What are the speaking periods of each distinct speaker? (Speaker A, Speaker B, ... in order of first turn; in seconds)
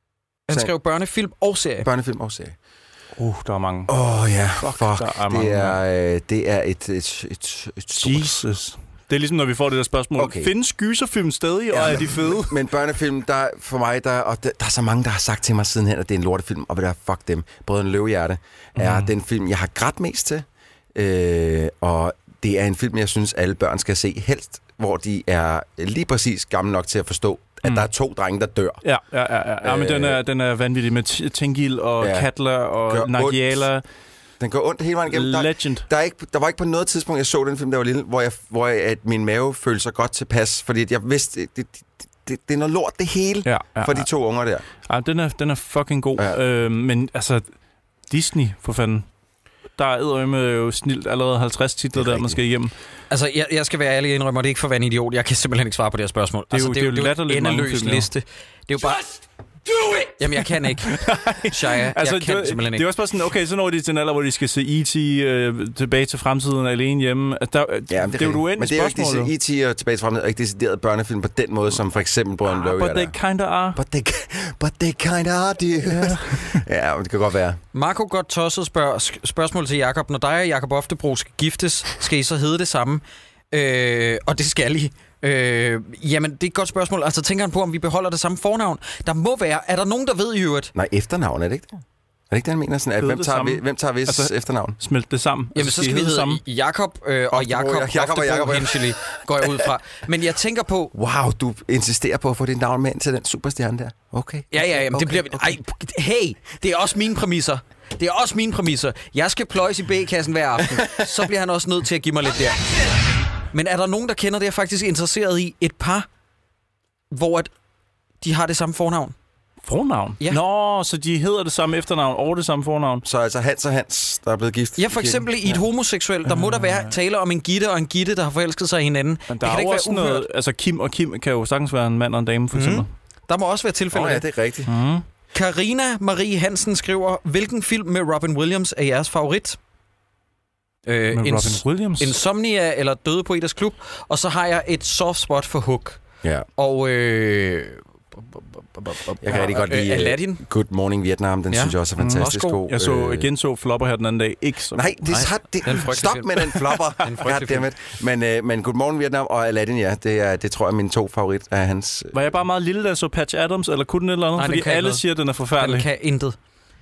Speaker A: 0.5-1.9, 53.1-59.1, 60.0-62.9, 77.7-90.7, 95.5-100.9, 104.5-112.7, 113.5-116.1, 117.1-117.5, 118.2-119.2, 124.8-130.3, 132.5-134.2, 135.3-139.6, 140.9-146.0, 146.6-150.4, 151.5-152.6, 155.1-157.7, 164.4-165.0, 165.6-166.4
Speaker B: 1.8-2.6, 3.9-8.4, 10.2-10.5, 11.7-28.8, 29.6-30.2, 32.0-32.3, 32.9-33.6, 34.4-44.7, 52.0-52.4, 67.9-73.2, 73.8-77.6, 90.8-94.8, 97.3-99.0, 100.9-105.6, 123.0-125.6, 133.9-134.7, 146.2-146.5, 149.2-153.3, 154.7-162.3
Speaker C: 3.2-3.9, 4.6-5.8, 8.0-12.6, 18.8-19.1, 28.8-33.8, 35.1-35.9, 43.5-44.1, 44.9-47.5, 48.1-49.1, 49.8-52.7, 56.5-58.1, 60.8-69.3, 72.5-73.8, 75.9-76.6, 93.0-96.4, 119.6-123.0, 126.3-127.0, 129.3-132.9, 134.7-135.0, 141.1-142.2, 152.0-154.9, 162.1-165.9